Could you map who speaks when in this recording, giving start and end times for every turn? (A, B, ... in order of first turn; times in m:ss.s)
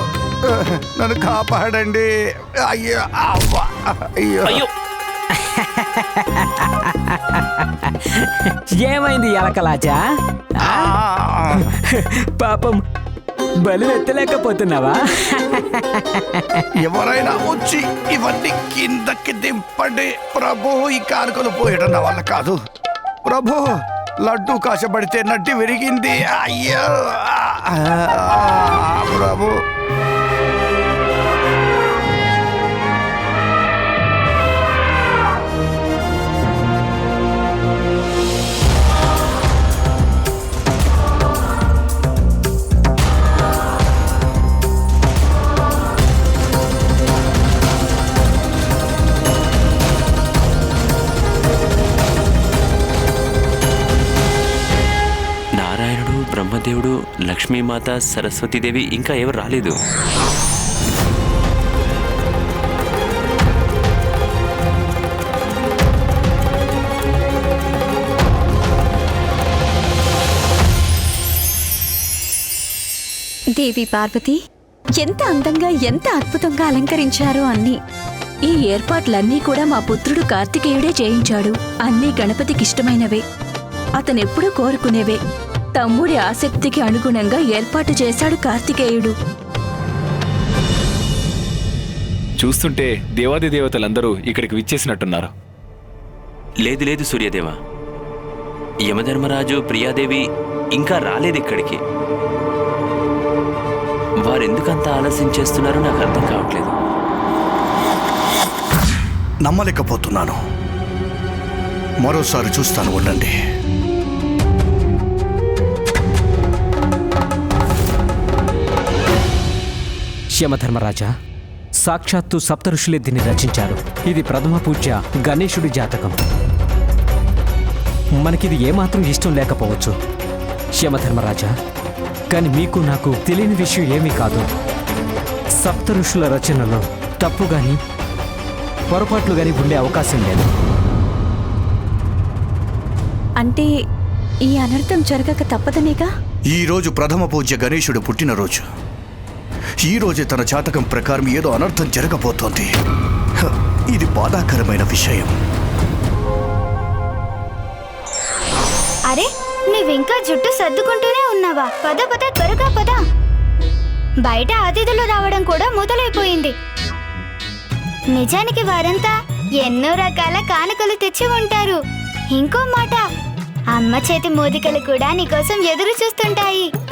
0:00.4-0:02.1 A
0:02.6-0:04.7 A
0:05.4-0:10.0 B
0:10.6-0:10.9 B
0:10.6-0:11.7 A
0:11.6-0:12.8 B
0:13.6-0:16.6 B
0:16.8-0:22.6 A
0:23.2-0:29.6 A
0:55.6-0:59.8 C
1:13.6-1:14.4 D
1:15.0-1:17.8 D
1:18.5-1:23.2 E
1:24.0-1:25.2 E
1:25.8-1:29.1 E
1:32.4-1:35.3 F
1:36.6-1:37.6 C
1:38.9-1:41.8 C
1:44.2-1:46.8 C
1:49.4-1:50.4 A
1:52.0-1:53.3 A
2:00.4-2:01.1 B
2:01.8-2:06.2 B
2:08.2-2:09.9 B
2:10.8-2:11.5 B
2:12.3-2:14.4 B
2:15.6-2:17.8 B
2:18.9-2:20.5 B
2:23.4-2:23.7 D
2:24.5-2:26.1 D
2:26.5-2:28.6 A
2:29.8-2:32.7 A
2:33.4-2:35.4 A
2:39.1-2:43.0 G
2:44.3-2:46.5 G
2:48.1-2:51.8 G
2:52.3-2:53.0 G
2:53.8-2:56.7 G